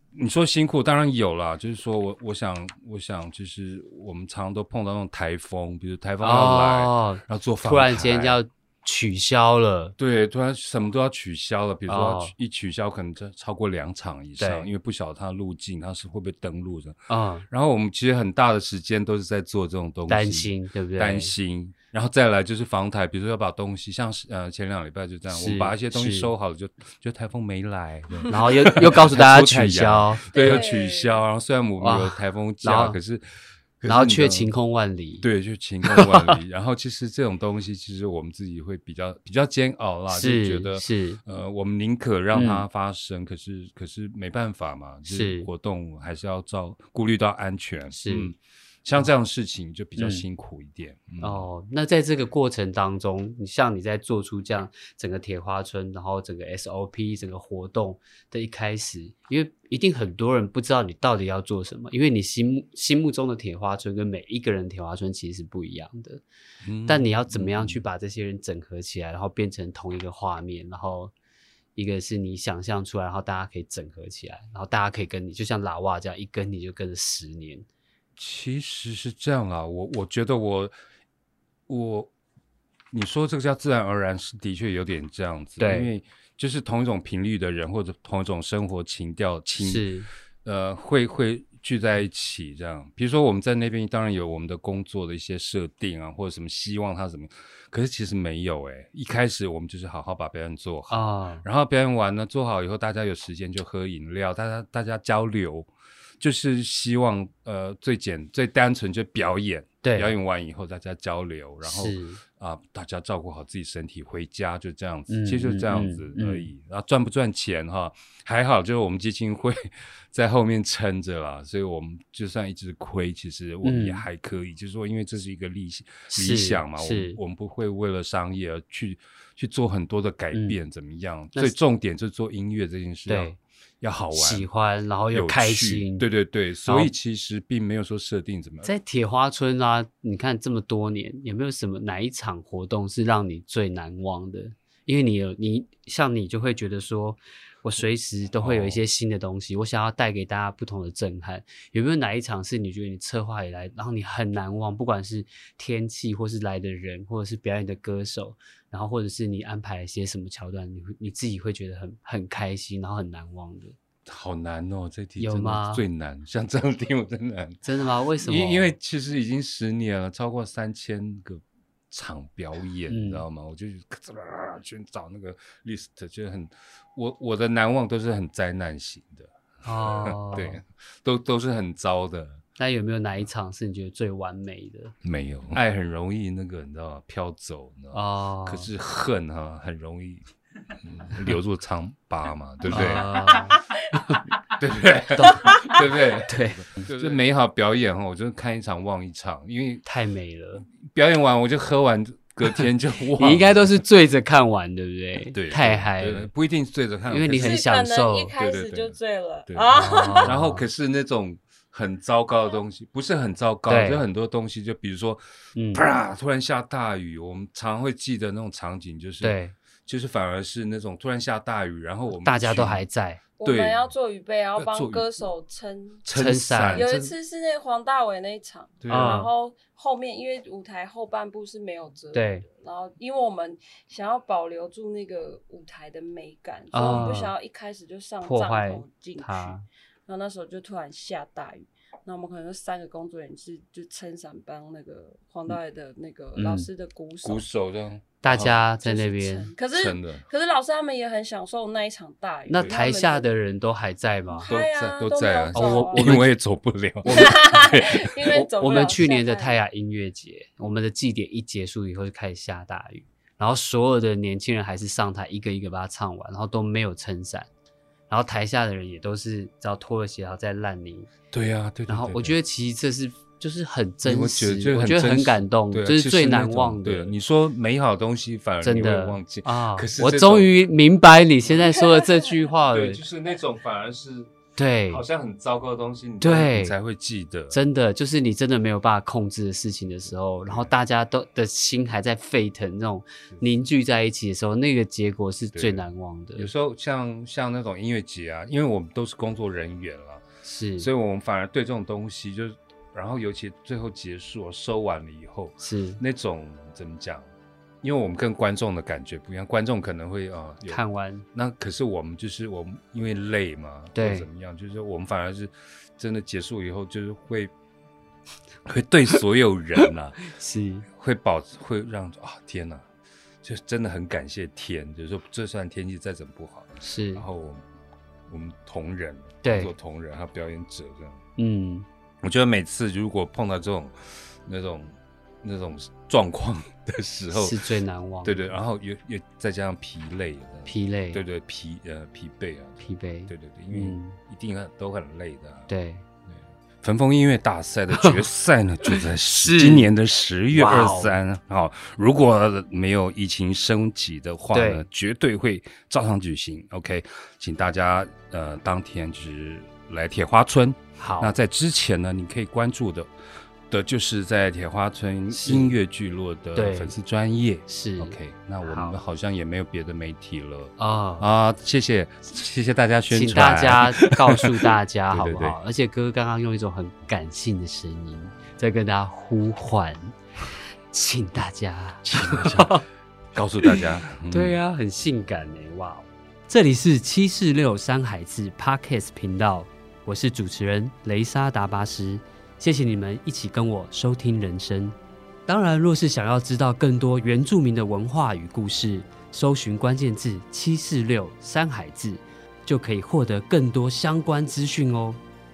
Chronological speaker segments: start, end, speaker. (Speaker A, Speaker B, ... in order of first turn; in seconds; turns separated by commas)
Speaker A: 0.1-8.4, Speaker B: 6.2-9.9, Speaker A: 10.0-33.2, Speaker B: 11.9-12.3, Speaker B: 14.4-14.7, Speaker B: 17.1-17.5, Speaker B: 20.1-21.3, Speaker B: 25.3-26.3, Speaker B: 28.3-30.6, Speaker C: 30.3-31.2, Speaker B: 31.8-33.0, Speaker A: 33.8-34.5, Speaker B: 33.9-35.2, Speaker A: 35.2-51.5, Speaker B: 35.9-36.4, Speaker B: 40.1-41.2, Speaker B: 42.3-42.6, Speaker B: 45.1-45.5, Speaker B: 47.9-48.3, Speaker B: 50.0-50.2, Speaker B: 51.2-66.2, Speaker A: 66.6-67.8, Speaker B: 66.9-71.1, Speaker B: 71.8-77.7, Speaker A: 78.2-80.7, Speaker A: 81.7-82.1, Speaker A: 82.9-89.9, Speaker B: 85.6-85.9, Speaker B: 89.6-90.1, Speaker A: 90.4-105.7, Speaker B: 100.9-101.5, Speaker A: 106.2-134.5, Speaker B: 109.8-110.1, Speaker B: 111.6-112.2, Speaker B: 115.1-116.5, Speaker B: 123.6-124.0, Speaker B: 126.1-127.2, Speaker B: 130.3-130.6, Speaker B: 133.1-133.4, Speaker B: 134.1-136.1, Speaker A: 135.1-138.7, Speaker B: 136.6-136.9, Speaker B: 138.6-163.8, Speaker A: 148.4-148.8, Speaker A: 164.1-167.7, Speaker B: 165.2-165.8, Speaker B: 167.6-168.8, Speaker A: 168.2-182.4, Speaker B: 172.9-173.2, Speaker B: 179.6-180.6, Speaker B: 182.6-184.9, Speaker A: 185.0-190.2, Speaker B: 187.9-188.7, Speaker A: 190.8-193.4, Speaker B: 192.7-194.3, Speaker A: 194.4-199.8, Speaker B: 195.1-197.2, Speaker C: 195.4-195.8, Speaker B: 199.8-200.7, Speaker A: 200.7-203.8, Speaker B: 203.2-206.3, Speaker A: 205.3-207.6, Speaker B: 207.1-208.3, Speaker C: 207.3-210.3, Speaker A: 208.4-209.0, Speaker A: 209.5-215.2, Speaker B: 209.7-210.6, Speaker B: 213.7-214.0, Speaker B: 215.6-215.8, Speaker A: 215.7-222.8, Speaker B: 219.2-219.6, Speaker B: 222.1-223.2, Speaker C: 223.4-226.1, Speaker A: 223.4-223.9, Speaker A: 224.6-225.1, Speaker A: 226.1-227.1, Speaker B: 226.1-226.9, Speaker C: 226.7-239.6, Speaker A: 228.8-229.2, Speaker B: 228.9-229.3, Speaker B: 232.1-232.4, Speaker B: 236.7-237.3, Speaker B: 238.2-239.7, Speaker C: 240.1-247.5, Speaker B: 246.3-246.7, Speaker A: 247.2-248.7, Speaker B: 248.2-249.5, Speaker C: 248.8-253.3, Speaker A: 249.7-250.3, Speaker B: 252.5-254.5, Speaker C: 254.3-256.2, Speaker A: 254.5-258.2, Speaker B: 255.5-256.3, Speaker B: 257.0-257.6, Speaker C: 257.1-259.6, Speaker B: 258.3-267.5, Speaker B: 268.1-271.1, Speaker A: 271.3-272.4, Speaker B: 271.9-277.1, Speaker A: 274.1-280.5, Speaker B: 278.6-283.0, Speaker A: 281.5-281.8, Speaker A: 282.7-284.4, Speaker B: 284.6-285.0, Speaker A: 284.9-287.6, Speaker B: 286.2-286.8, Speaker B: 287.5-296.5, Speaker A: 290.5-290.7, Speaker A: 295.5-295.8, Speaker A: 296.4-300.2, Speaker B: 300.4-300.9, Speaker A: 300.8-310.8, Speaker B: 305.6-306.0, Speaker B: 310.7-311.2, Speaker A: 311.3-317.5, Speaker B: 313.9-314.3, Speaker A: 318.7-320.3, Speaker B: 320.2-320.9, Speaker A: 320.9-322.9, Speaker A: 323.4-327.6, Speaker B: 326.8-327.2, Speaker A: 328.3-331.2, Speaker B: 329.4-329.7, Speaker B: 331.4-331.9, Speaker A: 332.2-337.6, Speaker B: 337.3-338.4, Speaker A: 338.2-345.7, Speaker B: 340.7-341.2, Speaker B: 342.8-344.2, Speaker B: 345.7-346.1, Speaker A: 346.3-363.1, Speaker B: 348.9-349.9, Speaker B: 350.5-351.2, Speaker B: 354.5-354.9, Speaker B: 361.0-361.3, Speaker A: 363.7-375.6, Speaker B: 365.3-365.8, Speaker B: 366.6-366.9, Speaker B: 367.7-368.9, Speaker B: 370.8-371.3, Speaker B: 373.1-380.1, Speaker B: 380.9-382.9, Speaker A: 382.0-382.8, Speaker A: 383.3-384.6, Speaker B: 383.8-395.0, Speaker B: 395.5-405.2